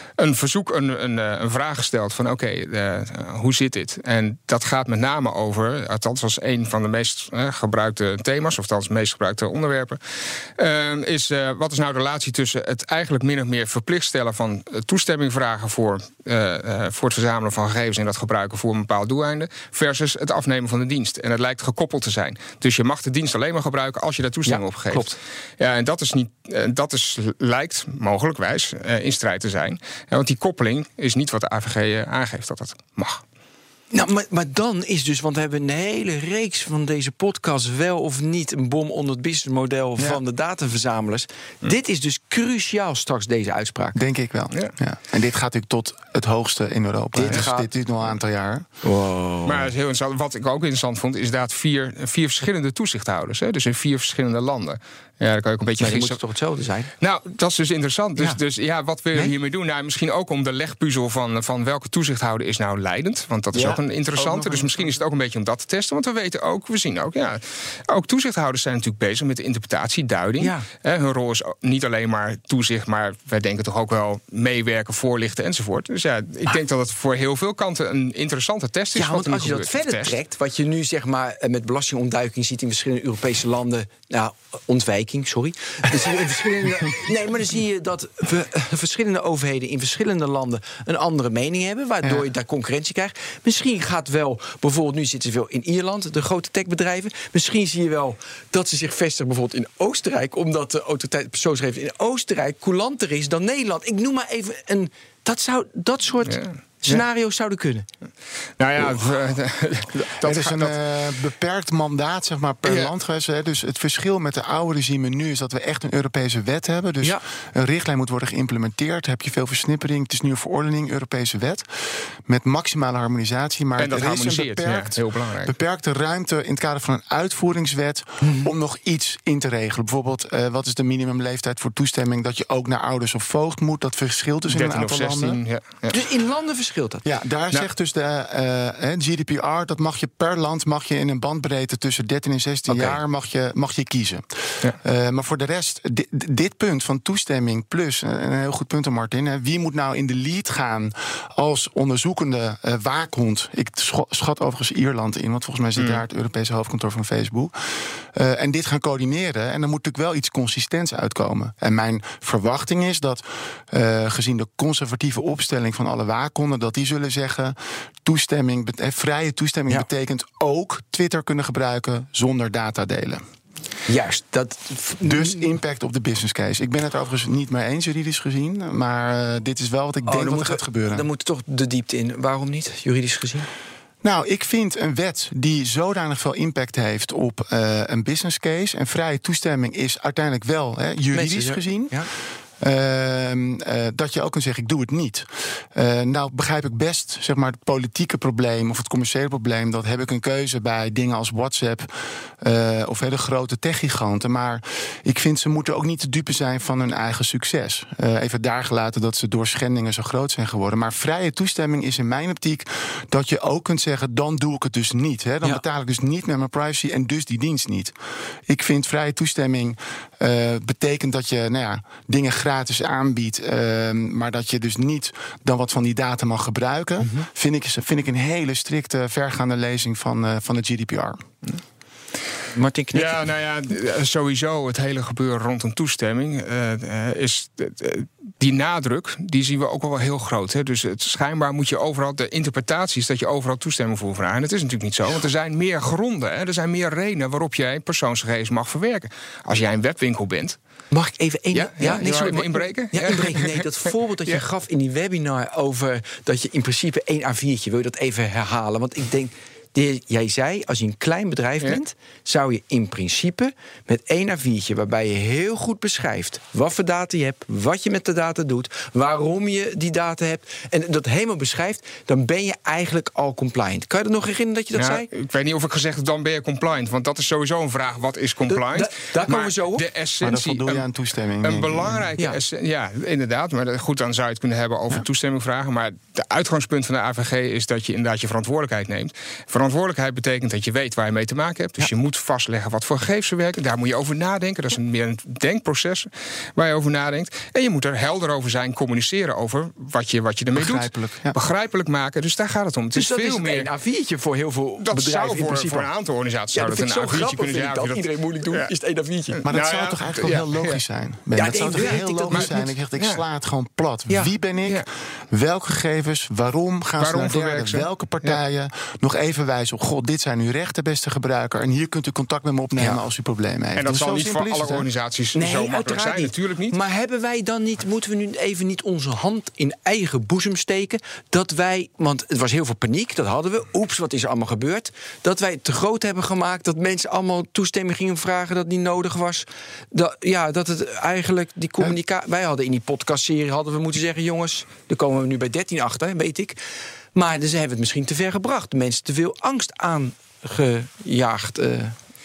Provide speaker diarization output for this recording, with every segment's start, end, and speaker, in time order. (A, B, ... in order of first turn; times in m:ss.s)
0:00.2-0:33.2 A
0:24.4-0:25.1 B
0:33.9-0:44.0 B
0:43.9-0:48.6 C
0:47.1-0:47.7 B
0:48.8-0:49.7 B
0:49.4-0:56.2 A
0:55.8-0:56.9 B
0:57.0-1:20.2 A
1:03.5-1:05.0 C
1:10.4-1:10.7 B
1:18.9-1:47.9 B
1:46.2-1:47.0 A
1:48.6-1:50.8 A
1:49.9-2:15.4 C
1:52.6-1:52.9 A
2:03.8-2:05.5 A
2:08.2-2:08.5 B
2:14.5-2:16.0 A
2:15.9-2:17.0 B
2:17.0-2:53.2 C
2:22.7-2:23.0 B
2:53.9-2:55.5 B
2:55.0-3:01.0 C
3:00.0-3:03.5 B
3:04.0-3:12.1 C
3:11.1-3:12.1 B
3:12.6-3:37.9 C
3:38.5-3:51.2 C
3:47.0-3:47.3 B
3:52.5-3:53.2 B
3:52.9-4:10.6 A
4:10.9-4:35.1 B
4:11.5-4:13.6 A
4:34.7-4:40.9 A
4:38.5-4:39.8 B
4:40.2-4:42.1 C
4:41.4-5:03.7 A
5:00.5-5:01.4 C
5:02.9-5:05.9 B
5:04.8-5:08.7 A
5:06.5-5:09.4 B
5:09.3-5:10.8 A
5:09.4-5:24.9 C
5:11.3-5:12.7 B
5:11.8-5:13.2 A
5:17.0-5:18.4 A
5:23.8-5:26.8 A
5:25.3-5:46.6 B
5:47.1-5:51.9 B